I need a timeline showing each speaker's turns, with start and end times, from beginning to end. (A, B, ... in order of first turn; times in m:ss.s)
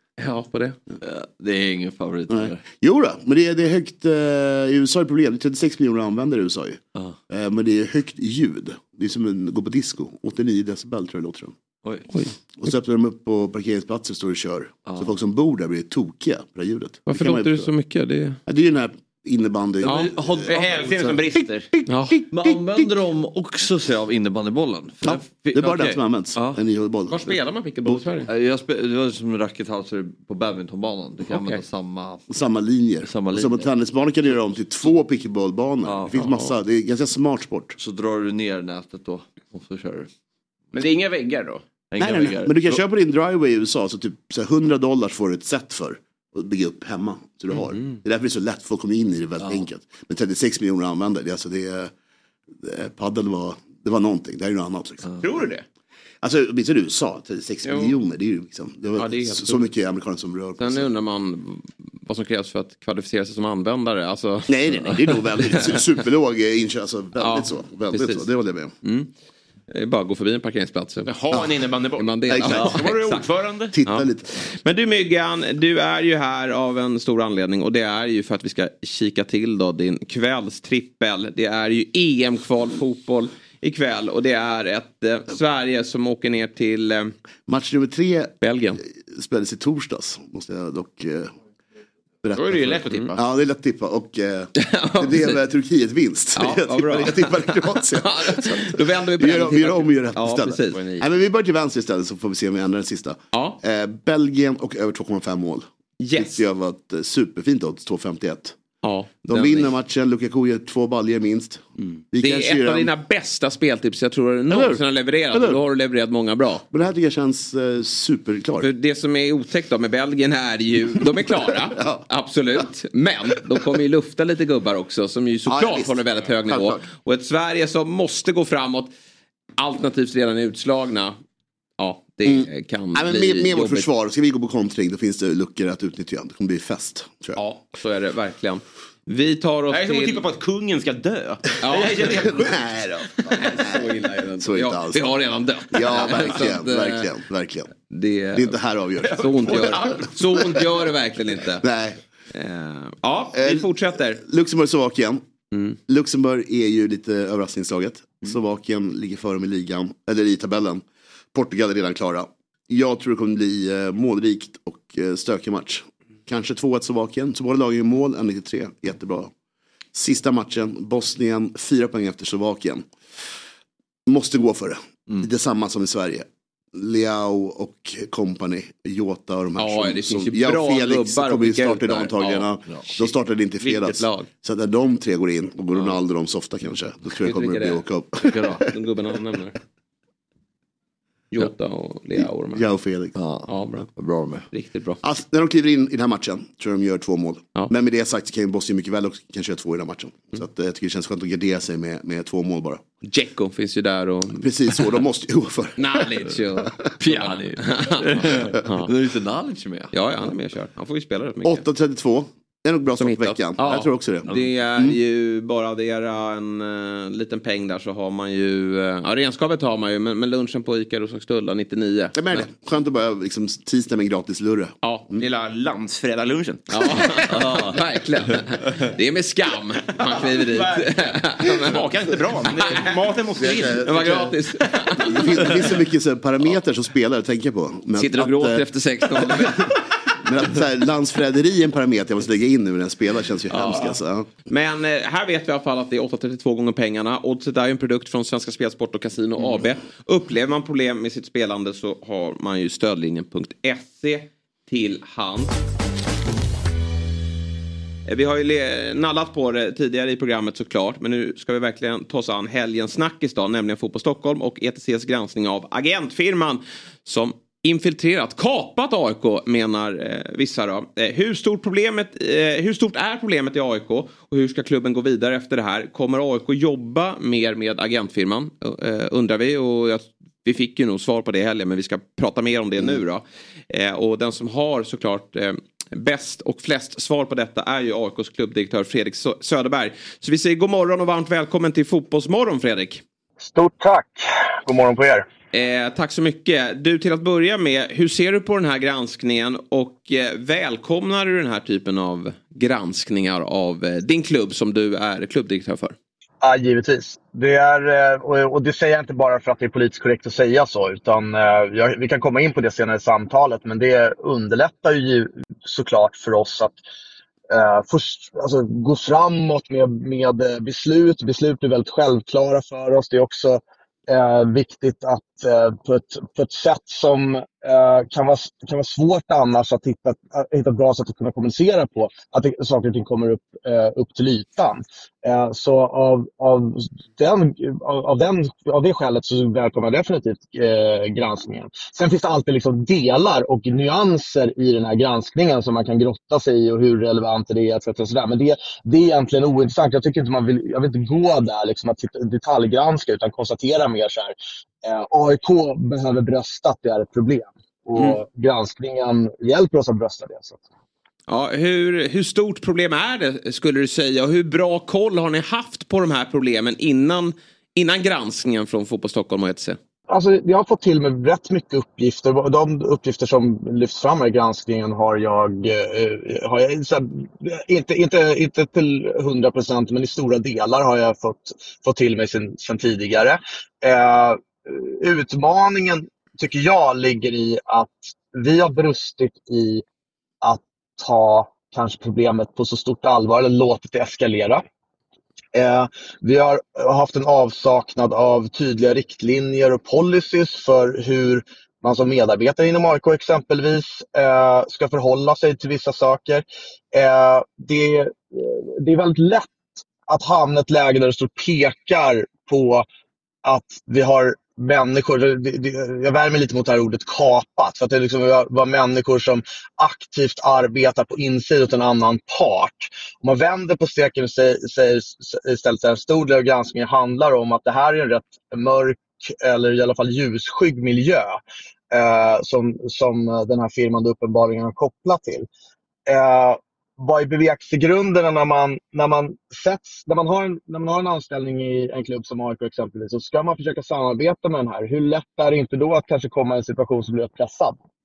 0:00.2-0:00.8 A
0:01.0-0:02.6 B
0:02.3-0:11.6 C
0:12.1-0:12.4 A
0:12.6-0:17.7 C
0:17.1-0:18.4 A
0:18.5-0:20.9 C
0:19.8-0:20.1 A
0:19.9-0:21.2 B
0:20.5-0:21.7 D
0:21.9-0:22.2 A
0:22.1-0:22.9 C
0:22.3-0:26.6 B
0:25.1-0:28.2 C
0:27.1-0:28.3 A
0:28.3-0:32.2 B
0:31.3-0:31.6 A
0:32.3-0:37.8 C
0:33.0-0:33.7 B
0:35.8-0:36.1 B
0:36.1-0:36.5 A
0:37.8-0:40.1 B
0:40.7-0:41.6 D
0:41.9-0:42.6 B
0:42.0-0:51.9 C
0:52.6-0:55.1 C
0:55.2-0:55.6 A
0:56.2-1:00.9 C
0:59.0-0:59.7 A
1:00.6-1:05.8 A
1:04.5-1:08.7 C
1:07.2-1:08.3 A
1:08.8-1:09.1 A
1:09.7-1:11.1 A
1:11.1-1:13.7 D
1:11.3-1:11.6 C
1:12.0-1:13.3 A
1:12.3-1:12.8 C
1:13.7-1:14.3 C
1:13.8-1:27.1 A
1:27.5-1:28.4 C
1:28.4-1:28.8 A
1:28.9-1:31.4 C
1:32.2-1:48.6 C
1:32.4-1:33.2 D
1:34.6-1:35.4 A
1:36.4-1:41.0 A
1:43.3-1:43.6 A
1:46.0-1:46.4 A
1:48.8-1:49.7 A
1:49.2-1:52.9 C
1:51.8-1:56.6 A
1:54.5-1:55.6 C
1:56.7-1:58.7 C
1:58.6-2:08.9 A
2:01.3-2:02.1 C
2:05.5-2:06.8 C
2:09.6-2:11.2 A
2:11.8-2:13.9 A
2:12.2-2:17.4 C
2:17.4-2:20.2 A
2:19.7-2:22.7 D
2:21.6-2:22.4 A
2:21.7-2:27.7 C
2:23.4-2:27.1 A
2:27.9-2:31.6 A
2:28.3-2:30.6 C
2:29.2-2:30.1 D
2:31.6-2:32.0 C
2:32.3-2:34.2 A
2:33.3-2:35.3 C
2:35.5-2:35.8 A
2:35.9-2:49.3 C
2:49.9-2:52.9 C
2:54.1-3:08.6 C
2:59.6-3:04.3 A
3:07.2-3:07.8 A
3:08.3-3:08.6 B
3:08.5-3:09.6 A
3:11.3-3:12.7 A
3:12.2-3:13.2 C
3:13.2-3:14.4 B
3:13.5-3:13.9 A
3:14.5-3:15.0 A
3:15.0-3:22.8 C
3:23.0-3:24.8 A
3:24.3-3:26.1 C
3:25.8-3:28.9 A
3:27.0-3:29.9 B
3:29.9-3:31.6 A
3:31.4-3:35.0 C
3:33.0-3:42.5 A
3:42.1-3:45.2 C
3:44.8-3:45.1 A
3:45.2-3:47.2 D
3:46.7-3:51.9 A
3:47.3-3:47.8 B
3:50.0-3:50.9 D
3:51.5-3:54.3 D
3:52.5-3:52.9 A
3:53.4-3:54.4 C
3:53.8-3:55.7 A
3:54.9-4:04.3 C
3:58.0-3:59.8 A
4:03.5-4:15.6 A
4:18.1-4:53.0 A
4:53.4-4:55.3 E
4:55.5-5:06.0 A
5:06.4-5:16.8 E
5:17.5-6:00.6 E
5:58.0-5:58.2 A
6:01.3-6:09.8 A
6:10.1-6:29.8 E
6:30.4-6:34.6 E
6:35.6-6:52.9 E
6:53.4-7:15.5 E
7:16.1-7:27.8 E